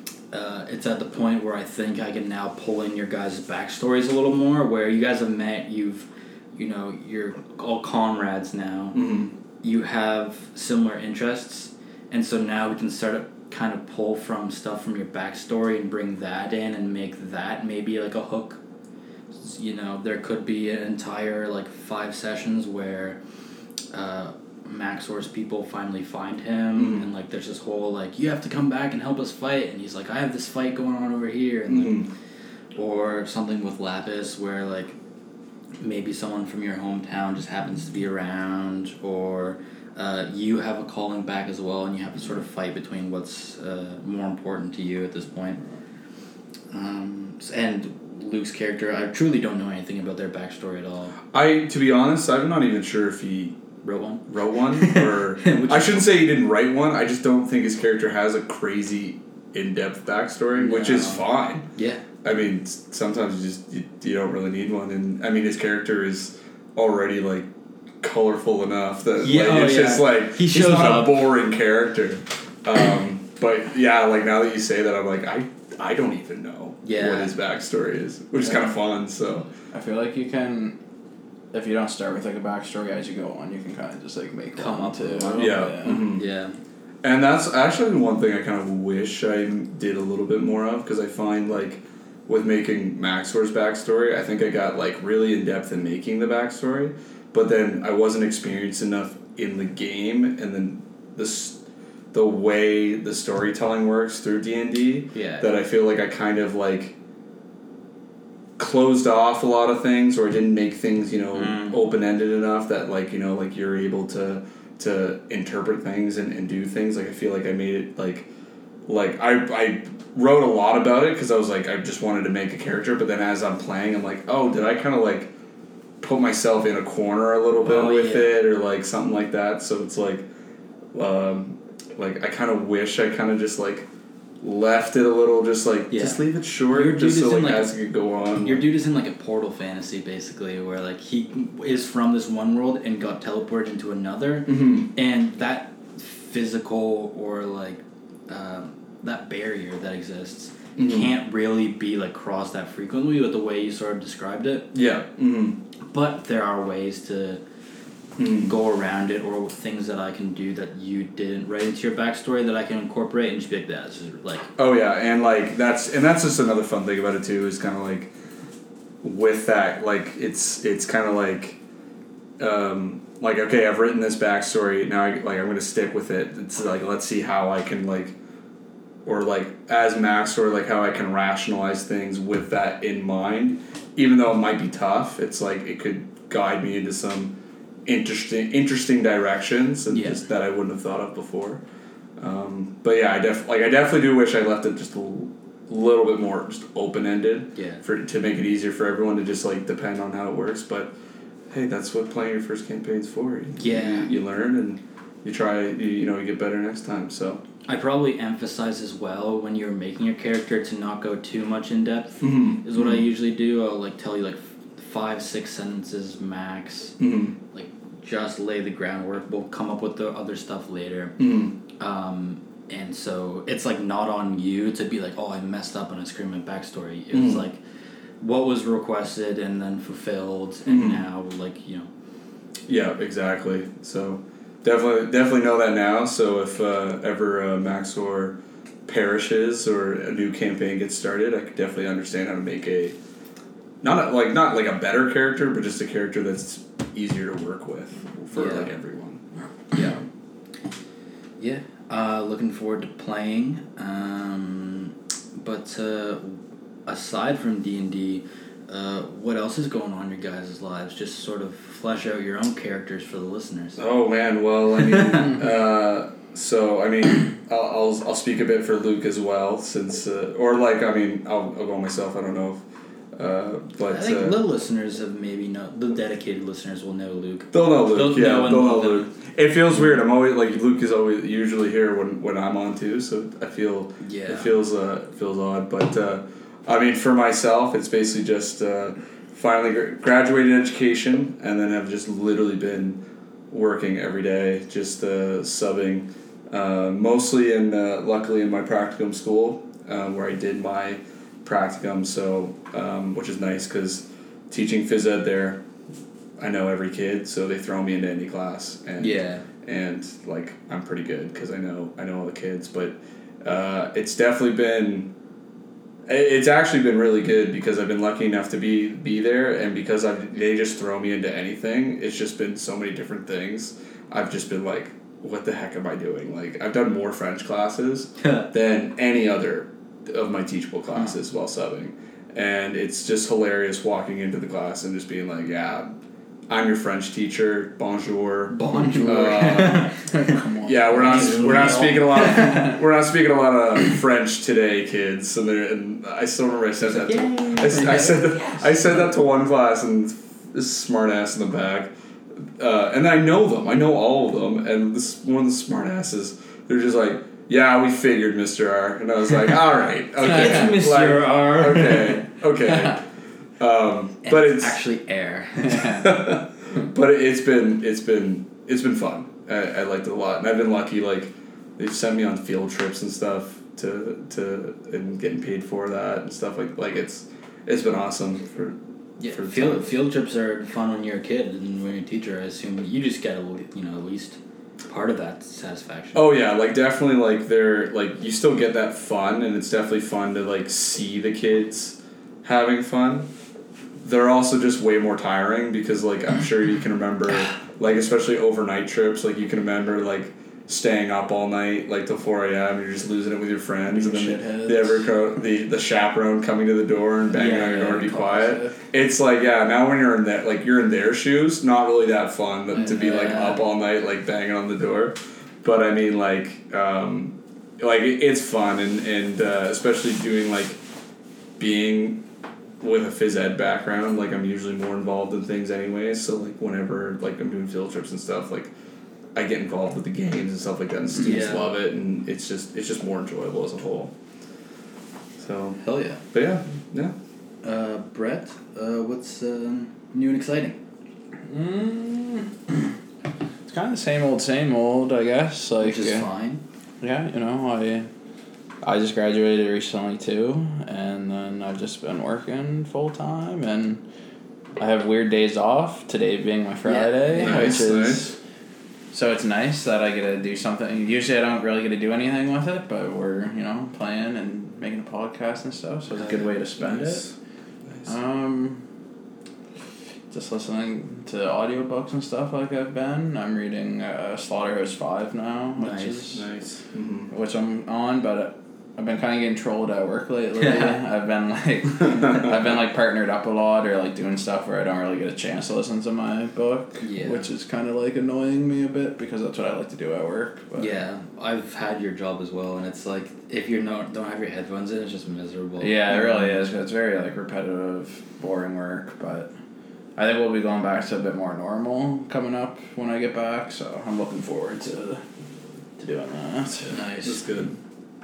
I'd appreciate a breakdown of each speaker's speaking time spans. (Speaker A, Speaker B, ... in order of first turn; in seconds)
Speaker A: 0.3-9.1, 9.6-18.6, 19.3-23.2, 23.9-32.1, 32.8-35.0, 35.8-45.6, 46.7-51.2, 53.8-56.1, 60.5-62.0, 69.2-71.3, 76.8-77.3, 84.6-86.5, 105.1-105.5, 111.3-111.8, 127.6-128.3, 135.9-137.7, 138.4-154.7, 155.9-157.4, 158.3-164.5, 189.9-190.2, 197.6-197.8, 203.6-204.1, 207.7-217.0, 217.5-221.2, 221.8-227.6, 228.2-231.9, 248.3-248.7, 249.7-250.0, 251.4-263.8, 264.9-265.3, 273.9-279.1, 284.0-284.6, 309.0-309.4, 328.2-328.5, 338.5-342.8, 346.8-349.0, 360.2-362.9, 364.2-366.1, 379.2-386.3, 407.3-408.3, 412.8-413.6, 431.1-431.7, 435.8-436.2, 437.6-440.8, 445.8-446.6, 456.9-457.8, 475.8-476.3, 480.6-481.0, 487.0-487.5, 490.8-496.5, 506.9-507.4
Speaker B: 8.9-9.3, 26.8-27.1, 31.7-32.1, 51.3-53.6, 54.3-61.7, 62.2-67.5, 68.0-79.5, 85.4-86.2, 87.0-101.6, 102.1-107.0, 108.6-118.3, 118.8-125.3, 126.0-130.3, 130.9-133.9, 134.4-138.7, 144.5-144.9, 150.8-151.1, 154.7-155.6, 158.2-158.5, 164.6-168.1, 169.0-171.6, 172.4-178.2, 179.1-191.6, 192.2-200.9, 201.5-207.4, 212.2-213.1, 217.0-217.4, 221.2-221.6, 227.1-227.4, 230.7-231.0, 232.7-243.0, 243.8-250.0, 263.8-272.6, 273.1-274.4, 277.5-305.6, 306.4-315.1, 316.1-335.9, 336.5-339.9, 340.6-363.0, 363.6-364.8, 365.7-378.8, 379.3-379.9, 386.1-393.3, 394.0-420.8, 421.6-422.2, 422.8-428.7, 429.4-434.1, 435.4-437.1, 457.4-458.3, 466.3-467.3, 476.3-477.3, 507.2-507.7
Speaker C: 79.7-80.8, 81.5-86.1, 338.9-342.8, 403.9-405.1, 407.4-408.8, 441.5-442.9, 443.7-446.3, 447.0-448.1, 448.8-454.0, 454.8-458.4, 459.1-467.2, 468.1-468.8, 470.3-476.5, 477.3-490.9, 495.8-499.5, 500.2-505.2, 506.0-507.0